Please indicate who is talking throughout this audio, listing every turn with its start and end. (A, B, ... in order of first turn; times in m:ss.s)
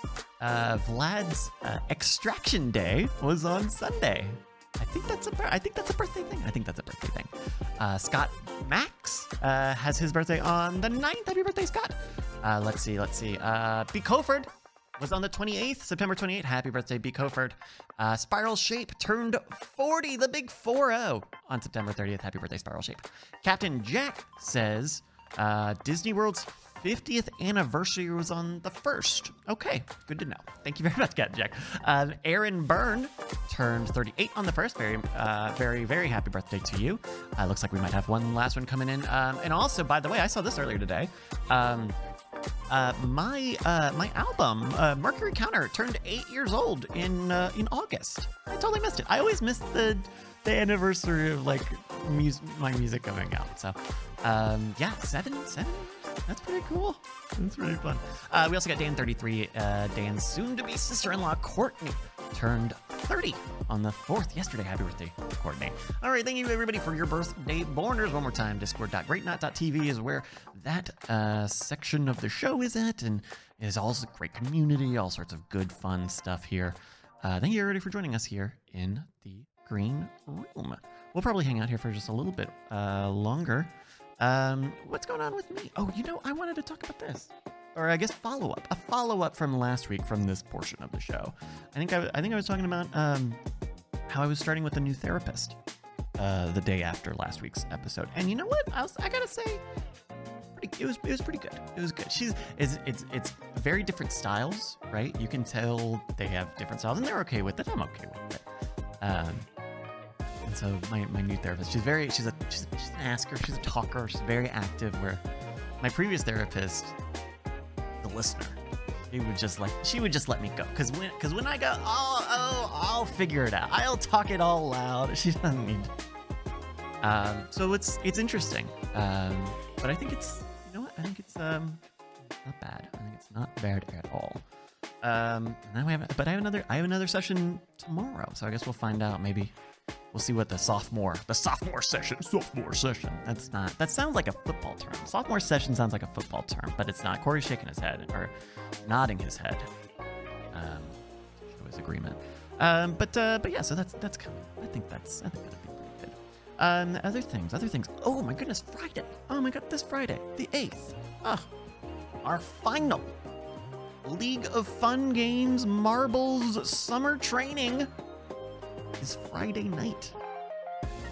0:00.4-0:42.0 A
0:42.7-1:33.4 A
1:34.1-1:35.6 A
1:36.2-1:39.6 A
1:40.5-1:48.4 A
1:49.0-1:49.5 A
1:50.4-1:55.2 A
1:55.8-1:56.9 A
1:58.0-2:05.9 A
2:07.0-2:11.8 A
2:12.4-2:14.4 A
2:15.0-2:19.5 A
2:20.1-2:28.3 A
2:28.8-2:29.7 A
2:30.5-2:41.5 A
2:42.2-2:43.1 A
2:44.0-2:47.9 A
2:49.0-2:50.1 A